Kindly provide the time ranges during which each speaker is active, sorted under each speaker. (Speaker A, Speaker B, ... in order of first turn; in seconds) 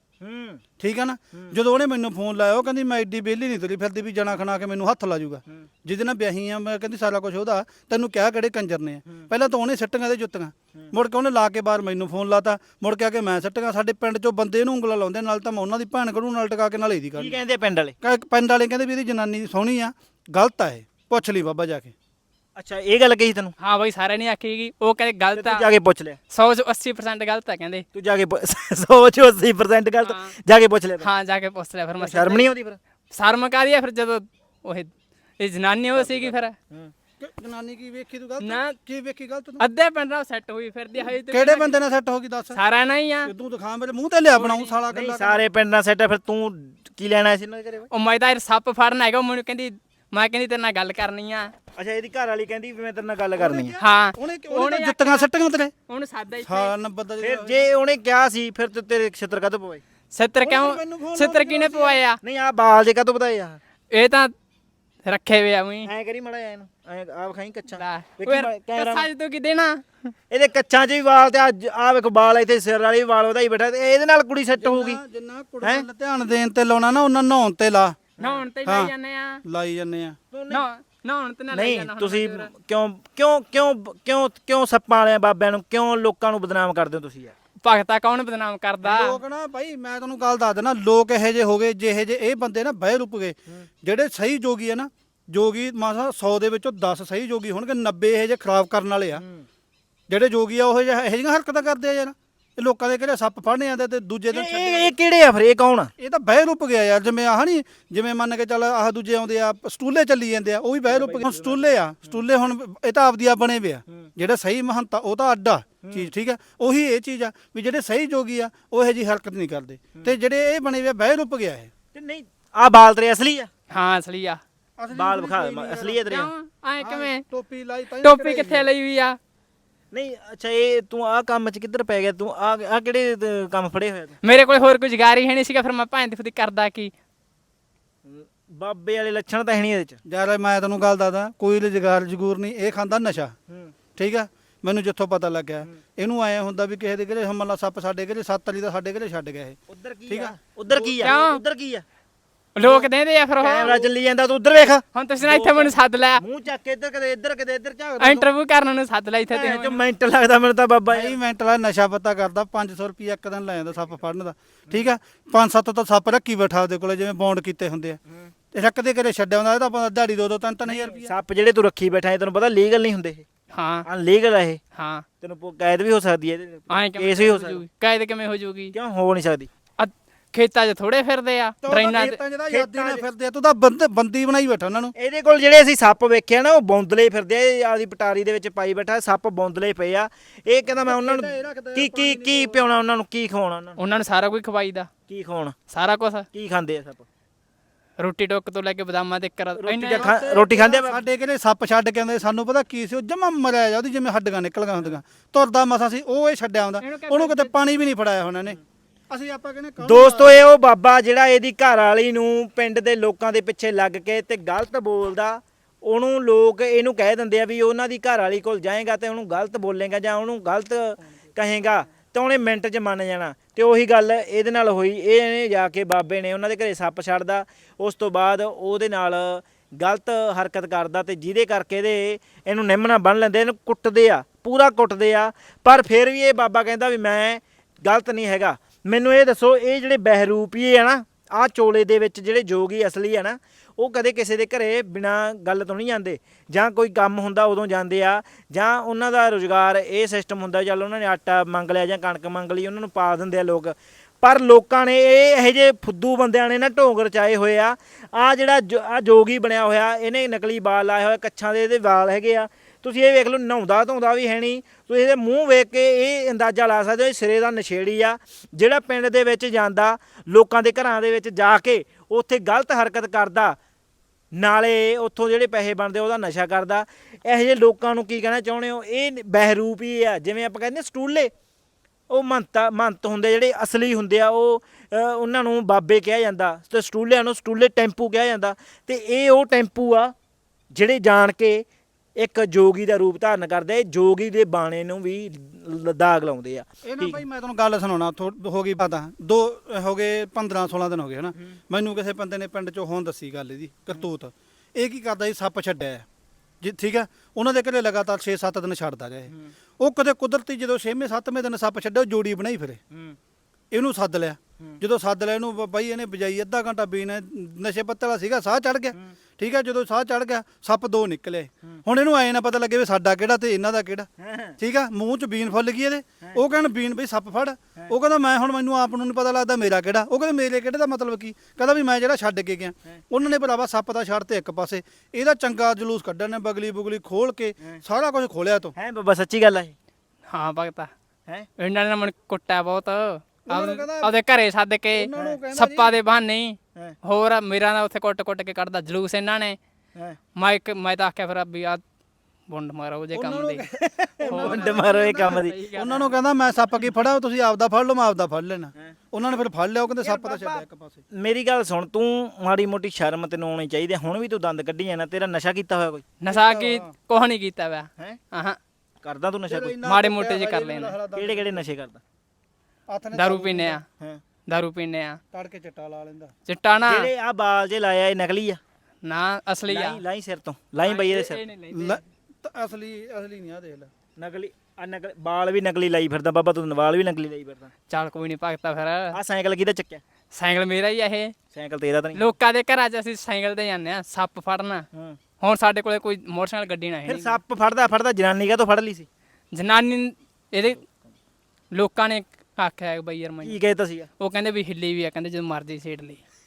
Speaker A: 0.2-0.6, 17.1-17.9, 22.6-23.5, 25.4-26.2, 27.9-31.1, 32.0-32.8, 35.9-36.9, 44.9-47.9, 51.8-53.7, 57.2-59.8, 62.2-63.6, 65.8-69.1, 70.3-75.0, 80.3-80.6, 81.5-87.3, 99.2-99.5, 104.3-105.9, 110.9-112.2, 115.8-116.1, 121.9-123.5, 124.9-126.3, 129.9-134.2, 138.0-140.0, 143.5-143.7, 149.7-151.8, 152.6-158.3, 159.3-161.2, 170.7-173.2, 173.8-174.6, 175.2-177.6, 178.7-179.5, 182.5-183.1, 184.9-193.8, 195.1-195.6, 196.3-197.1, 199.6-201.0, 209.8-273.6, 274.3-281.3, 282.1-290.1, 290.7-291.6, 292.1-297.2, 312.9-313.2, 324.2-324.6, 338.8-339.8, 345.1-345.4, 353.8-355.6, 360.0-366.1, 369.0-369.8, 371.1-372.0, 376.8-378.6, 379.7-381.4, 384.1-387.7, 389.1-390.0, 391.5-392.2, 397.1-399.1, 403.4-404.1
Speaker B: 0.8-17.4, 18.0-21.9, 37.2-39.6, 41.3-42.6, 43.2-45.4, 53.4-55.7, 56.4-57.7, 60.4-62.0, 74.6-78.0, 78.6-78.9, 79.4-80.2, 88.8-99.2, 100.1-104.9, 106.0-121.7, 124.8-126.1, 126.8-128.7, 140.0-143.3, 144.0-149.6, 150.1-151.2, 160.9-168.0, 168.5-171.1, 181.6-184.9, 190.8-192.6, 199.9-208.6, 209.1-210.4, 296.8-306.0, 306.6-312.8, 313.7-338.7, 343.4-344.2, 344.9-345.9, 353.1-361.0, 366.3-366.9, 369.5-371.6, 372.9-373.8, 375.3-376.3, 381.7-383.9
Speaker C: 23.6-25.6, 26.3-27.9, 30.0-30.3, 31.0-32.5, 33.1-36.5, 38.4-38.8, 39.6-41.7, 42.5-43.3, 44.3-44.8, 47.9-51.5, 53.8-55.3, 55.9-56.7, 60.1-62.2, 63.9-64.3, 65.0-65.9, 67.7-69.8, 78.2-79.4, 80.5-82.5, 87.6-89.2, 123.7-124.4, 126.1-127.2, 128.0-129.2, 134.2-136.9, 151.0-151.4, 152.6-153.9, 154.9-156.2, 158.0-159.8, 173.5-173.8, 174.8-175.0, 176.7-178.7, 179.8-182.2, 193.8-194.9, 195.7-196.3, 198.0-200.1, 206.8-207.5, 340.3-340.9, 341.6-349.6, 350.4-351.8, 352.5-353.6, 354.3-356.1, 366.2-368.6, 369.8-370.9, 373.1-373.8, 374.5-375.2, 376.4-377.1, 379.0-380.0, 380.8-382.0, 387.9-389.2, 390.3-391.3, 392.1-394.8, 395.4-397.4, 399.5-400.8, 401.7-403.6, 404.2-406.2